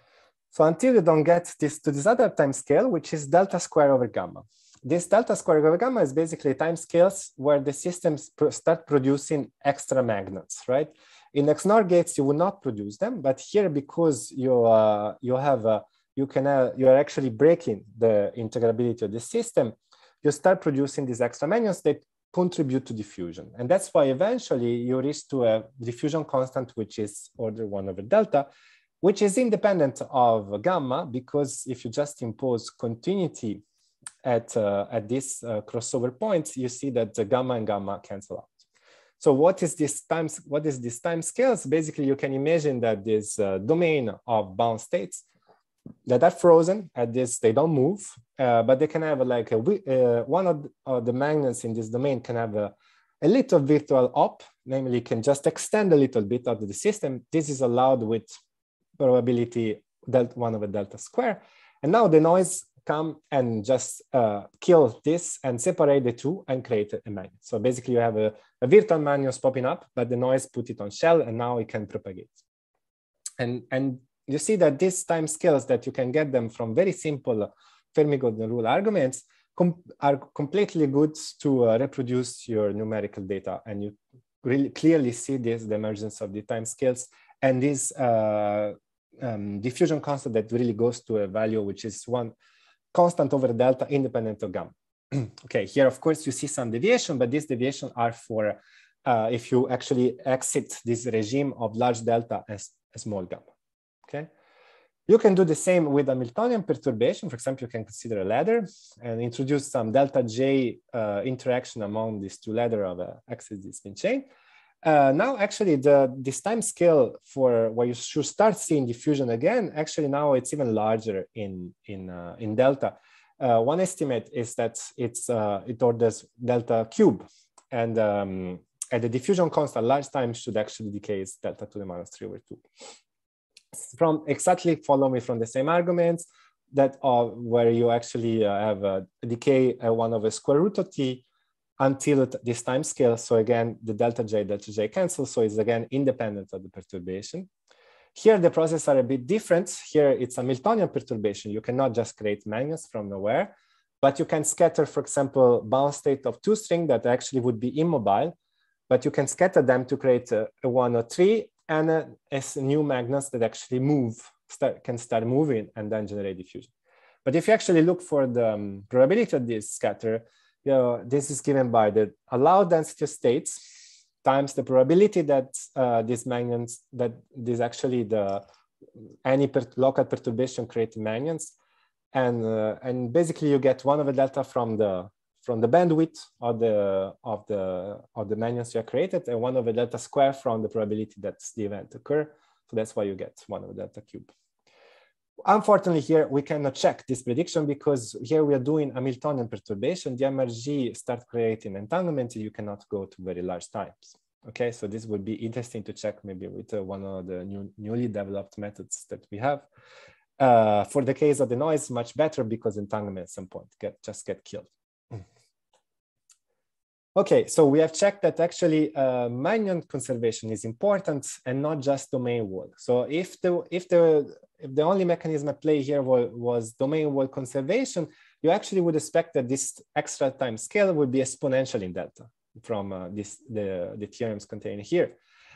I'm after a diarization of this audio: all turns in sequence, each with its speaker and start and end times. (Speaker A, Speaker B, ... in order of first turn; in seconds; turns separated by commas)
Speaker A: 0.5-28.5, Speaker A: 29.0-33.6, Speaker A: 34.2-38.5, Speaker A: 39.2-45.2, Speaker A: 46.1-58.3, Speaker A: 59.0-72.4, Speaker A: 73.4-92.3, Speaker A: 92.9-103.5, Speaker A: 105.1-114.3, Speaker A: 114.8-132.6, Speaker A: 133.8-141.2, Speaker A: 141.8-147.5, Speaker A: 148.2-158.3, Speaker A: 158.9-166.7, Speaker A: 167.2-173.6, Speaker A: 174.2-178.4, Speaker A: 179.2-181.6, Speaker A: 182.1-194.3, Speaker A: 195.4-209.7, Speaker A: 210.4-215.2, Speaker A: 217.2-235.2